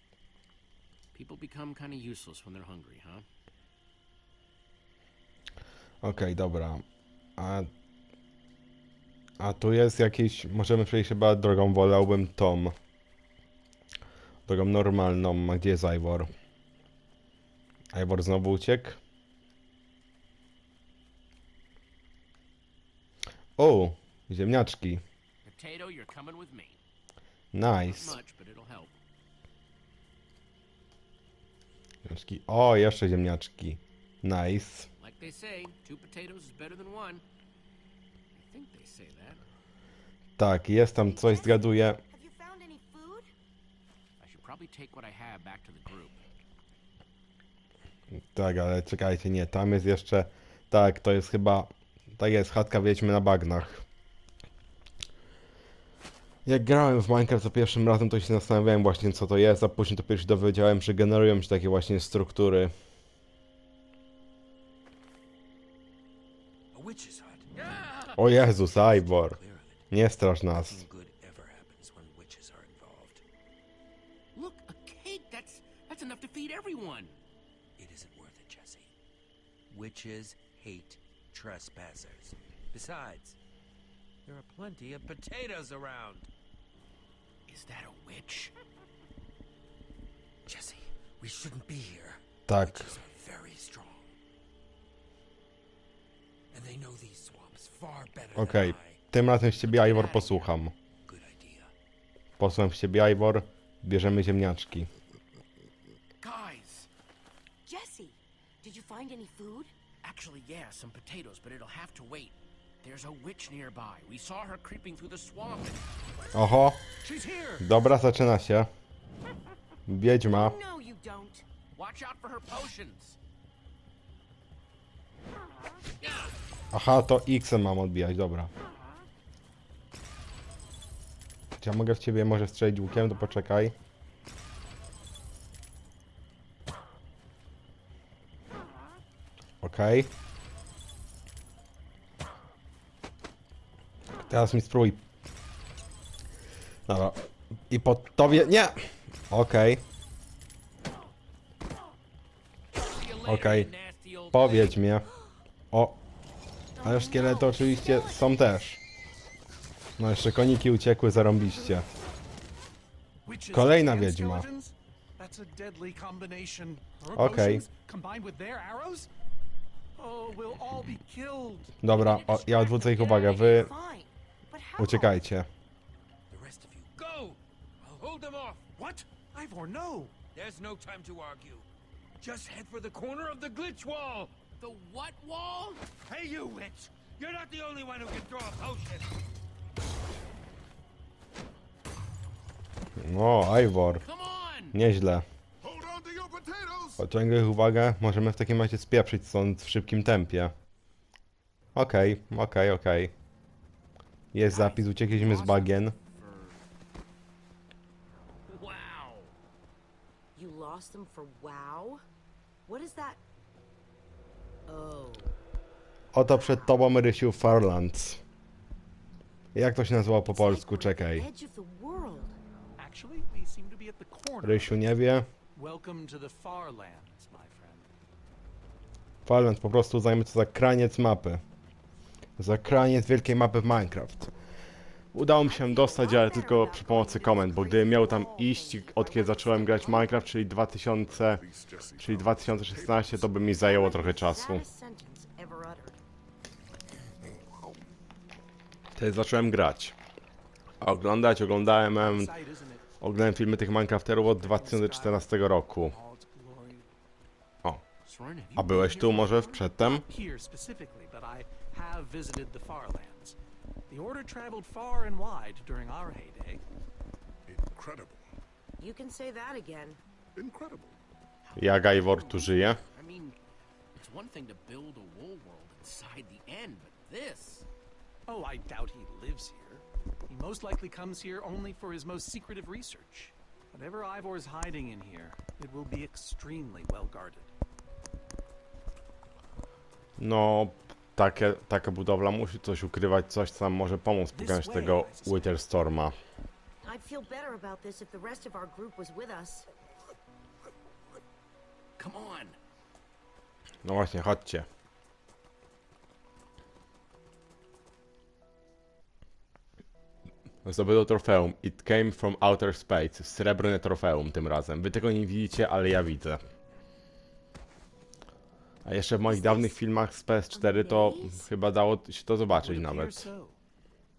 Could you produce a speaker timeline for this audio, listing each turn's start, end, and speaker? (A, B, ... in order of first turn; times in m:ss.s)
0:01.1-0:03.2 A
0:06.0-0:06.8 B
0:07.4-0:07.7 B
0:09.4-0:12.7 B
0:14.5-0:16.3 B
0:17.9-0:19.0 B
0:23.6-0:25.0 B
0:25.4-0:26.8 A
0:27.5-0:28.2 B
0:27.8-0:29.0 A
0:32.0-0:34.9 B
0:35.0-0:37.2 A
0:38.3-0:39.4 A
0:40.4-0:42.0 B
0:41.0-0:43.3 C
0:44.2-0:46.2 A
0:48.1-0:53.8 B
0:56.4-1:02.7 B
1:06.7-1:09.9 D
1:07.5-1:08.2 A
1:08.2-1:09.4 B
1:09.9-1:10.8 B
1:10.5-1:13.2 D
1:14.3-1:17.2 A
1:17.8-1:18.9 D
1:19.7-1:23.4 D
1:24.2-1:26.3 D
1:27.5-1:28.5 A
1:30.4-1:34.1 D
1:32.5-1:33.0 B
1:36.5-1:39.0 D
1:38.4-1:40.7 B
1:39.6-1:41.7 D
1:42.4-1:44.9 B
1:46.2-1:46.9 A
1:47.6-1:49.7 C
1:50.0-1:55.9 A
1:56.3-1:56.8 B
1:57.0-1:57.7 E
1:57.6-1:58.7 B
1:59.9-2:00.5 B
2:00.3-2:01.4 C
2:01.7-2:03.2 A
2:06.0-2:06.3 A
2:06.7-2:08.5 B
2:11.6-2:13.7 B
2:19.6-2:20.1 B
2:24.3-2:25.0 B
2:26.9-2:29.8 B
2:32.7-2:34.8 A
2:33.2-2:33.7 B
2:34.3-2:35.1 B
2:35.7-2:36.0 B
2:36.7-2:38.4 C
2:36.8-2:38.8 B
2:40.0-2:41.9 B
2:43.2-2:49.1 E
2:43.5-2:44.4 B
2:47.1-2:47.6 B
2:50.0-2:51.8 E
2:51.8-2:53.7 B
2:51.9-2:53.7 A
2:53.4-2:55.2 C
2:54.8-2:55.5 B
2:56.3-2:58.7 D
2:58.8-3:00.1 E
3:00.3-3:01.7 D
3:02.2-3:04.3 D
3:04.6-3:05.9 A
3:06.0-3:09.1 D
3:13.0-3:14.0 B
3:13.9-3:14.8 A
3:14.7-3:15.2 B
3:15.6-3:17.1 F
3:17.0-3:20.5 B
3:21.7-3:23.1 B
3:24.3-3:25.9 B
3:24.4-3:26.6 A
3:28.5-3:29.3 A
3:30.4-3:32.0 C
3:32.7-3:33.2 C
3:34.7-3:35.3 C
3:36.1-3:38.2 B
3:36.3-3:36.8 C
3:39.5-3:41.2 B
3:40.2-3:42.4 C
3:42.8-3:44.9 E
3:44.4-3:45.3 B
3:45.5-3:47.9 E
3:49.2-3:51.4 B
3:52.4-3:54.3 B
3:55.1-4:01.4 B
3:55.3-4:00.2 C
4:00.9-4:03.7 F
4:02.0-4:04.6 B
4:03.6-4:06.0 C
4:09.0-4:09.9 B
4:10.8-4:12.3 B
4:11.9-4:12.8 E
4:13.0-4:16.0 B
4:14.3-4:16.9 E
4:18.0-4:19.6 A
4:18.5-4:20.0 B
4:19.3-4:23.4 E
4:23.9-4:26.6 E
4:27.4-4:28.3 F
4:28.8-4:30.0 C
4:30.4-4:31.0 F
4:31.4-4:33.4 A
4:31.6-4:32.8 B
4:34.0-4:37.7 A
4:38.3-4:47.5 E
4:50.2-4:56.2 B
4:54.3-4:55.6 E
4:56.8-4:59.7 C
5:02.0-5:02.6 A
5:03.8-5:04.7 B
5:10.6-5:16.4 B
5:18.8-5:23.3 B
5:19.2-5:19.8 C
5:20.5-5:21.5 C
5:22.5-5:23.6 E